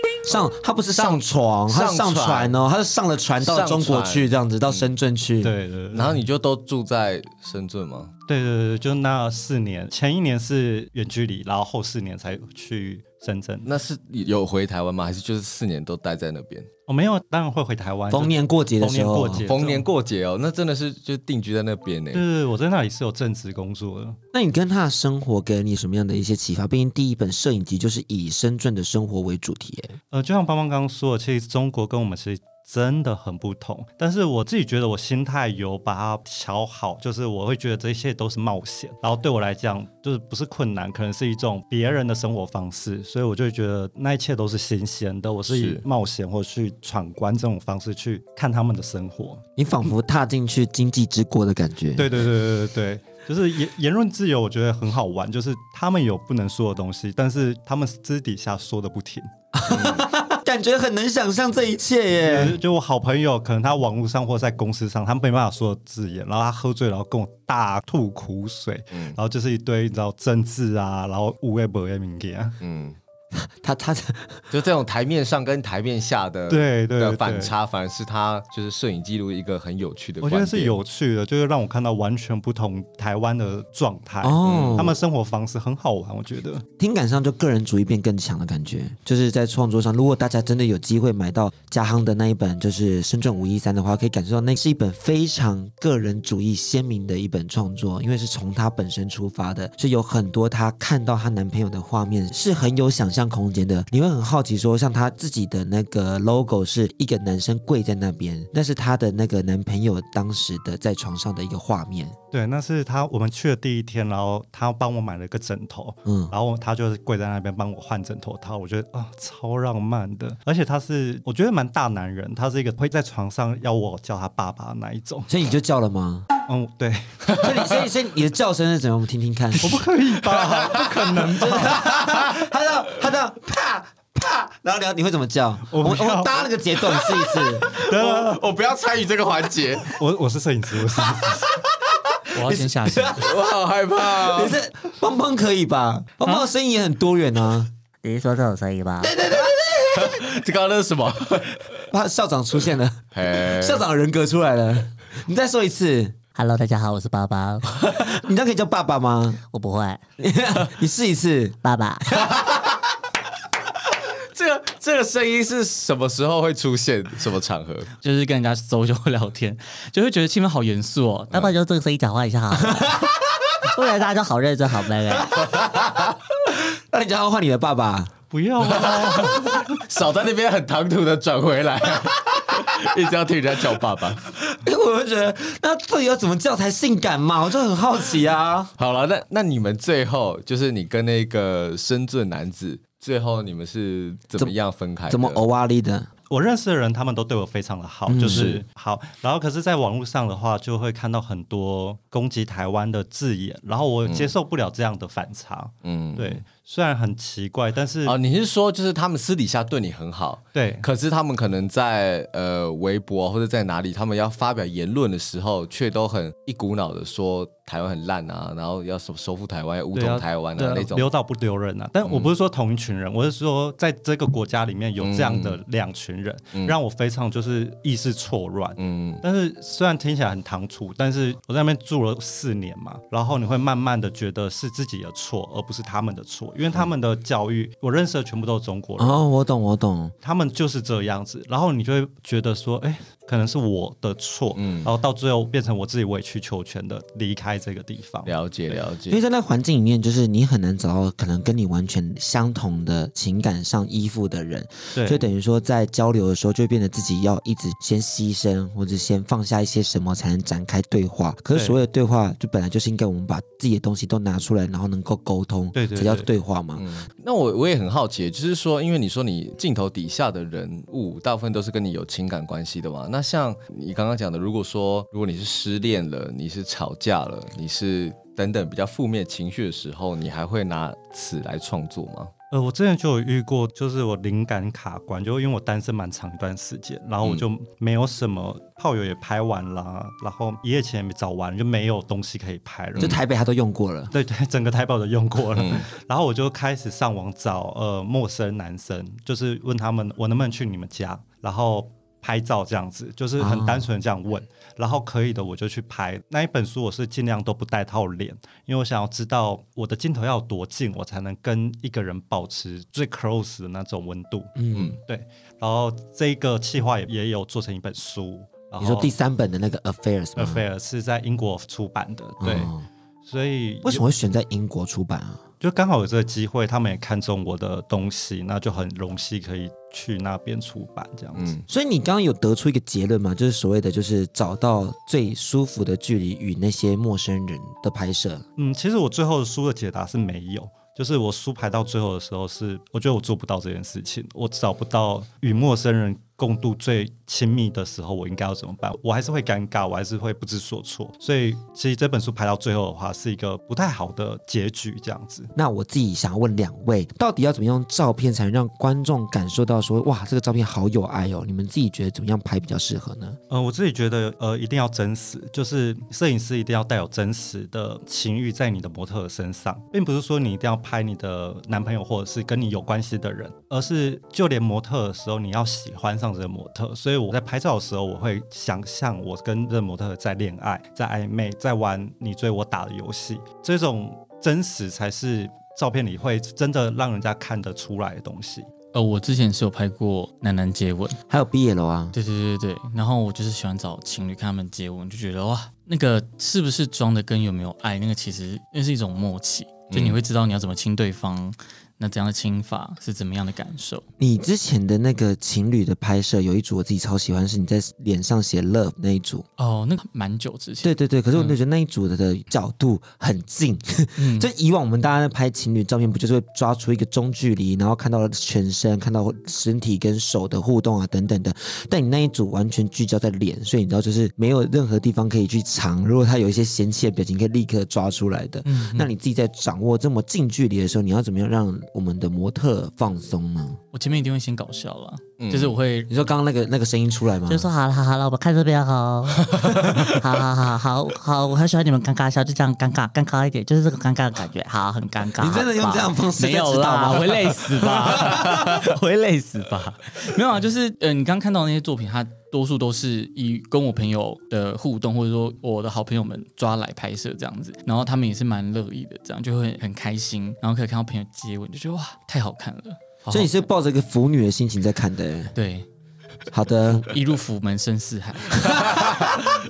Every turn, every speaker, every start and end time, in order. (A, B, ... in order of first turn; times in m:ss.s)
0:00.2-0:05.5 A
0:01.0-0:02.6 B
0:03.4-0:04.9 B
0:05.4-0:06.2 C
0:05.9-0:08.1 B
0:08.3-0:13.7 C
0:13.6-0:16.7 B
0:16.9-0:19.9 C
0:18.1-0:19.5 A
0:19.5-0:22.3 B
0:22.1-0:24.2 C
0:24.3-0:30.0 A
0:30.1-0:49.4 C
0:45.5-0:45.8 B
0:49.6-0:52.3 A
0:52.0-0:59.3 C
0:59.5-1:02.6 A
0:59.7-1:00.0 B
1:02.2-1:12.6 C
1:08.9-1:09.2 B
1:12.6-1:13.0 B
1:13.3-1:14.5 A
1:14.5-1:20.7 B
1:16.5-1:17.5 C
1:20.2-1:26.6 C
1:24.2-1:25.0 A
1:24.4-1:24.9 B
1:26.8-1:52.2 A
1:52.3-2:05.3 C
1:56.0-1:56.3 A
2:05.3-2:06.3 A
2:06.5-2:07.4 C
2:07.4-2:09.9 A
2:09.6-2:11.9 C
2:10.4-2:10.9 B
2:11.1-2:17.8 A
2:11.6-2:12.4 B
2:15.7-2:16.5 C
2:17.6-2:20.0 B
2:17.7-2:18.4 C
2:19.8-2:21.6 C
2:21.8-2:23.4 A
2:22.3-2:23.3 D
2:23.2-2:24.6 B
2:24.0-2:27.7 A
2:28.0-2:29.1 E
2:29.0-2:30.2 A
2:29.9-2:31.8 B
2:31.9-2:36.2 A
2:33.1-2:33.8 B
2:36.4-2:37.7 E
2:37.8-2:39.4 A
2:39.5-2:40.0 E
2:40.2-2:41.6 A
2:41.6-2:42.2 E
2:42.3-2:42.6 B
2:44.3-2:47.9 B
2:48.0-2:51.5 D
2:51.3-2:53.0 E
2:52.6-2:53.2 A
2:53.6-2:55.4 E
2:55.5-2:56.1 B
2:56.9-2:58.1 A
2:58.3-2:59.8 C
2:58.6-3:04.3 B
3:04.5-3:08.7 A
3:08.8-3:15.4 B
3:15.1-3:16.1 A
3:16.3-3:28.2 C
3:18.1-3:18.6 A
3:18.2-3:18.6 B
3:24.0-3:24.3 B
3:25.8-3:26.4 B
3:28.0-3:41.1 B
3:30.6-3:30.9 C
3:39.9-3:59.2 C
3:42.0-3:42.3 B
3:45.0-3:45.6 B
3:48.8-3:49.2 B
3:59.0-4:00.1 A
4:00.2-4:08.8 C
4:04.6-4:04.9 B
4:08.3-4:09.2 B
4:09.1-4:26.9 A
4:15.0-4:15.2 C
4:21.5-4:21.8 C
4:25.8-4:26.3 C
4:26.8-4:42.3 B
4:42.5-4:53.2 C
4:53.0-4:54.1 A
4:54.1-5:19.1 C
4:55.6-4:55.9 B
5:03.4-5:03.9 A
5:14.6-5:15.0 A
5:18.8-5:20.6 A
5:20.4-5:22.7 C
5:22.4-5:22.8 A
5:23.2-5:24.0 C
5:23.8-5:25.4 A
5:25.6-5:31.6 C
5:31.4-5:31.6 B
5:31.7-5:38.4 A
5:38.6-5:55.5 C
5:55.6-6:03.4 A
6:03.5-6:28.7 C
6:28.9-6:31.2 D
6:31.3-6:32.2 A
6:32.1-6:44.0 D
6:39.9-6:40.2 B
6:44.2-6:49.4 A
6:49.6-6:51.6 D
6:50.8-7:13.8 A
6:54.2-6:54.5 D
7:08.6-7:09.1 D
7:13.9-7:16.1 D
7:15.4-7:15.8 B
7:16.1-7:17.7 A
7:17.5-7:26.1 E
7:25.4-7:28.8 A
7:26.4-7:43.5 D
7:43.3-7:45.5 A
7:45.6-7:45.9 D
7:46.5-7:47.1 A
7:46.8-7:48.8 D
7:48.7-7:49.5 B
7:48.7-7:49.2 A